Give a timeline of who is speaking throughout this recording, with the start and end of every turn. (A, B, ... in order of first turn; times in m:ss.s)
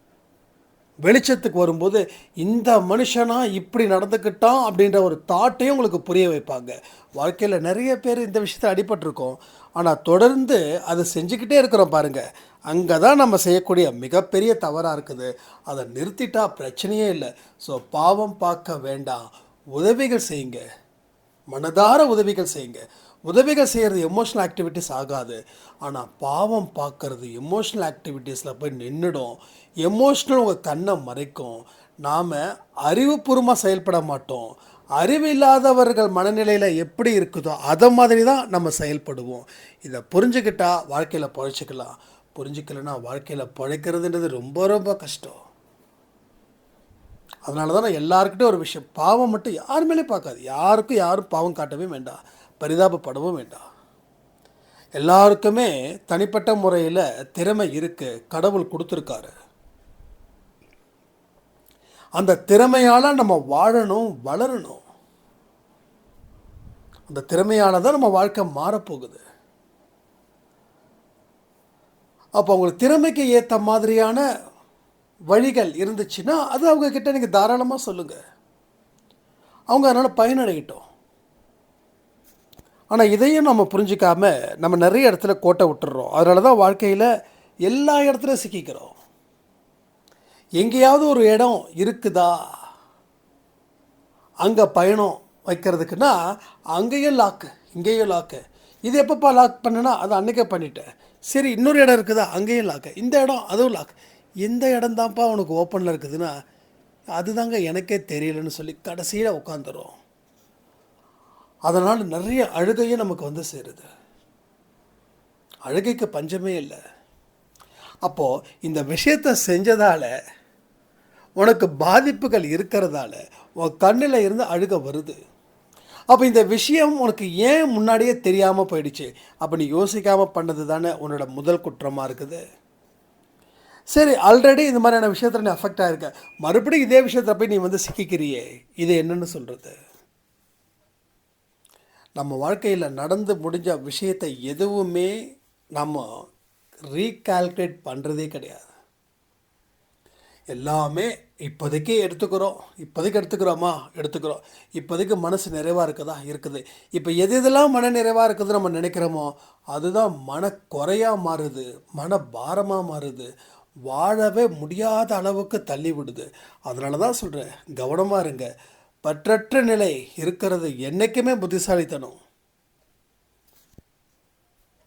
0:01.1-0:19.2 A
0:19.8-0:20.6 A
0:21.5-0:45.4 A
0:47.5-0:53.6 A
0:55.0-0:59.3 A
1:02.2-1:04.8 A
1:07.1-1:09.2 A
1:12.4-1:14.2 A
1:15.3-1:18.2 A
1:19.7-1:20.8 A
1:22.9-1:27.1 A
1:27.7-1:28.9 A
1:30.6-1:32.3 A
1:34.4-1:36.1 A
1:36.8-1:46.3 A
1:47.2-1:49.9 A
1:51.7-1:53.9 A
1:55.7-1:56.8 A
1:58.0-2:00.1 A
2:01.4-2:05.2 A
2:06.1-2:12.4 A
2:13.9-2:19.7 A
2:22.2-2:25.1 A
2:25.8-2:26.0 A
2:26.9-2:28.7 A
2:30.5-2:43.3 A
2:43.9-2:48.5 A
2:49.0-2:52.2 A